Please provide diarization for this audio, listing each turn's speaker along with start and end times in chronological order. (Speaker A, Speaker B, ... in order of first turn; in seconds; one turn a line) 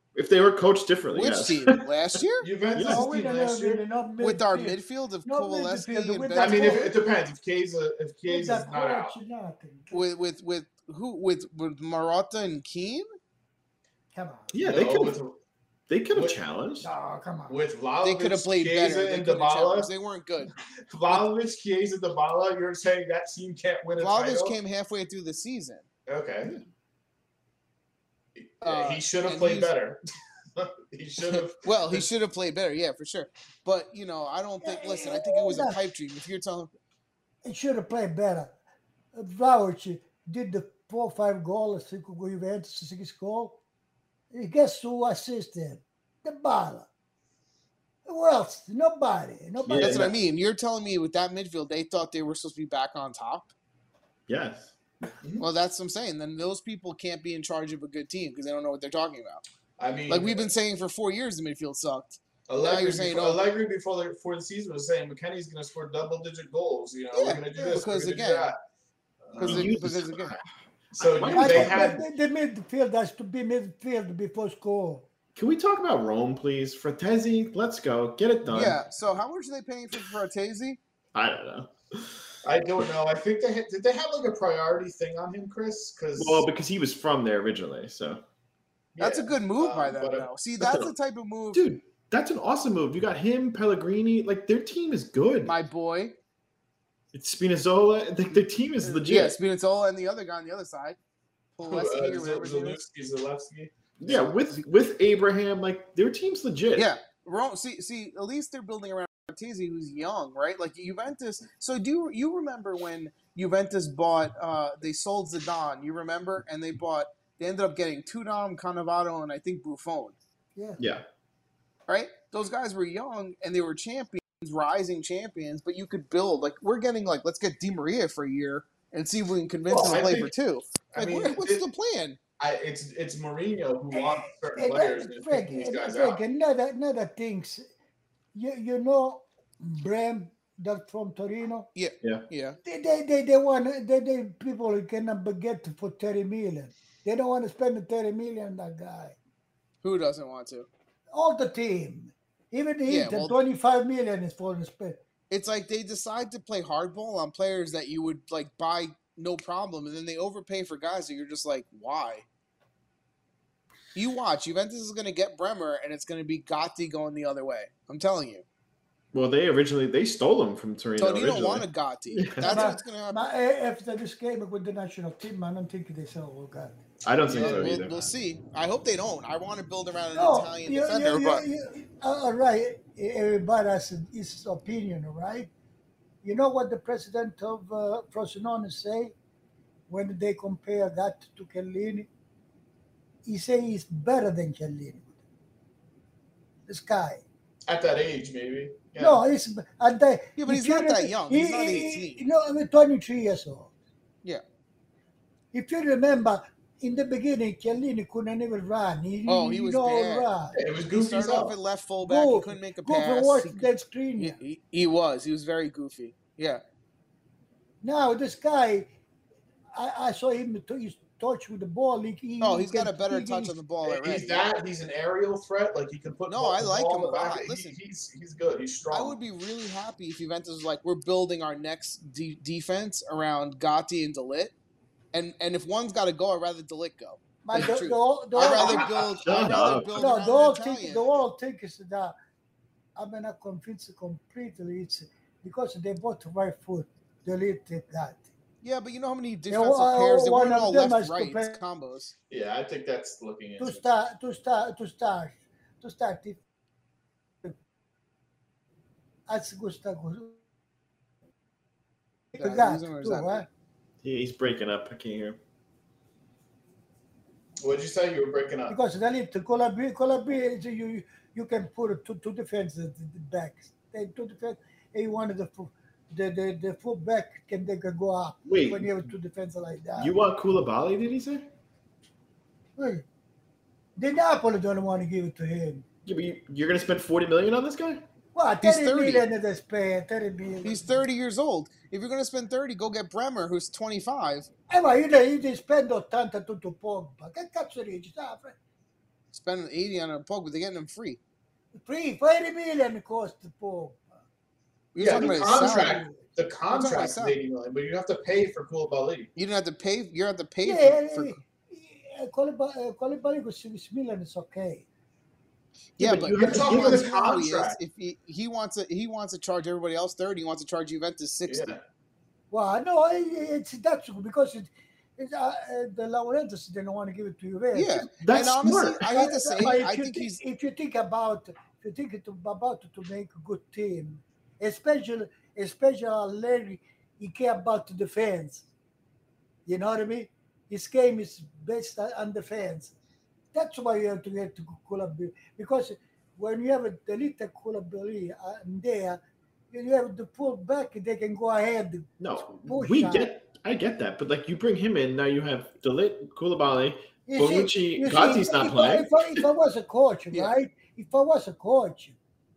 Speaker A: 0.1-1.8
Speaker B: 1.1-2.5
Speaker C: 2.4-3.8
Speaker A: 2.7-3.0
Speaker D: 2.8-6.9
Speaker B: 4.2-6.9
Speaker C: 6.3-9.2
Speaker D: 8.3-10.0
Speaker B: 9.9-13.1
Speaker D: 14.1-14.5
Speaker A: 14.5-15.2
Speaker C: 14.6-15.3
Speaker A: 15.9-16.9
Speaker D: 16.8-17.6
Speaker C: 17.5-19.9
Speaker B: 18.0-20.5
Speaker C: 20.9-24.6
Speaker B: 24.0-25.9
Speaker C: 26.1-26.5
Speaker C: 28.4-30.0
Speaker B: 28.6-29.7
Speaker C: 30.6-32.1
Speaker B: 31.2-36.7
Speaker D: 34.6-35.8
Speaker D: 37.4-38.5
Speaker D: 39.1-43.6
Speaker D: 44.3-46.9
Speaker D: 48.0-50.1
Speaker A: 49.6-50.1
Speaker B: 49.8-53.5
Speaker A: 54.3-54.7
Speaker B: 55.4-59.4
Speaker C: 59.8-60.5
Speaker B: 60.1-63.4
Speaker C: 62.5-68.6
Speaker B: 67.1-68.5
Speaker C: 69.2-69.7
Speaker B: 69.4-70.4
Speaker A: 69.4-72.0
Speaker C: 71.0-72.0
Speaker D: 71.3-75.1
Speaker A: 75.3-78.8
Speaker B: 78.5-80.8
Speaker A: 81.1-82.2
Speaker C: 82.4-86.5
Speaker A: 86.2-88.2
Speaker C: 88.9-90.3
Speaker B: 89.0-91.6
Speaker A: 90.6-90.9
Speaker A: 91.5-95.5
Speaker B: 95.4-96.2
Speaker A: 97.1-99.3
Speaker B: 98.8-101.0
Speaker B: 101.5-102.8
Speaker C: 101.6-103.7
Speaker A: 104.0-106.9
Speaker B: 106.7-120.2
Speaker D: 120.5-120.8
Speaker A: 120.8-121.0
Speaker B: 121.9-132.2
Speaker C: 129.7-130.3
Speaker C: 130.8-131.6
Speaker C: 132.4-136.2
Speaker D: 133.9-137.7
Speaker D: 138.3-141.7
Speaker B: 141.7-142.6
Speaker D: 142.6-149.2
Speaker B: 149.8-150.7
Speaker D: 151.1-155.0
Speaker B: 152.9-153.3
Speaker B: 155.3-162.2
Speaker B: 163.9-168.4
Speaker A: 169.1-172.7
Speaker B: 171.0-173.2
Speaker D: 172.4-176.8
Speaker A: 177.0-178.1
Speaker C: 177.2-177.7
Speaker B: 177.3-181.4
Speaker D: 180.1-185.5
Speaker D: 186.2-189.1
Speaker D: 189.9-192.1
Speaker D: 193.2-195.1
Speaker D: 196.7-197.2
Speaker C: 197.7-199.2
Speaker D: 199.0-203.7
Speaker B: 200.4-202.2
Speaker D: 205.5-210.6
Speaker B: 209.2-210.3
Speaker C: 210.5-211.6
Speaker B: 210.8-216.6
Speaker D: 212.0-214.4
Speaker D: 217.8-218.9
Speaker D: 219.7-223.5
Speaker B: 222.4-224.5
Speaker C: 223.9-229.2
Speaker B: 226.3-227.8
Speaker B: 228.9-234.5
Speaker B: 235.1-241.1
Speaker D: 237.4-242.1
Speaker C: 238.4-239.0
Speaker A: 239.1-240.0
Speaker D: 242.9-248.3
Speaker B: 248.6-252.1
Speaker D: 249.5-251.6
Speaker C: 252.3-253.8
Speaker D: 253.6-256.4
Speaker D: 259.3-260.4
Speaker D: 262.3-263.4
Speaker B: 262.4-263.5
Speaker A: 264.0-265.4
Speaker C: 267.6-268.8
Speaker D: 268.7-280.1
Speaker A: 278.5-279.0
Speaker A: 280.0-281.5
Speaker D: 282.8-283.0
Speaker D: 283.9-285.8
Speaker A: 286.1-288.0
Speaker D: 288.3-290.9
Speaker B: 288.6-289.2
Speaker B: 290.6-294.5
Speaker D: 294.7-298.6
Speaker B: 299.3-301.2
Speaker D: 301.7-304.1
Speaker B: 304.9-306.0
Speaker C: 305.0-309.3
Speaker D: 305.1-306.3
Speaker B: 306.7-307.4
Speaker B: 309.4-311.4
Speaker D: 310.6-314.9
Speaker B: 316.0-321.7
Speaker A: 316.0-317.1
Speaker C: 316.4-317.8
Speaker C: 321.5-321.8
Speaker D: 322.5-328.1
Speaker B: 327.7-330.4
Speaker A: 328.2-329.1
Speaker D: 329.0-338.6
Speaker D: 339.6-342.9
Speaker D: 343.5-349.2
Speaker D: 349.7-353.3
Speaker A: 352.2-359.4
Speaker D: 357.3-362.1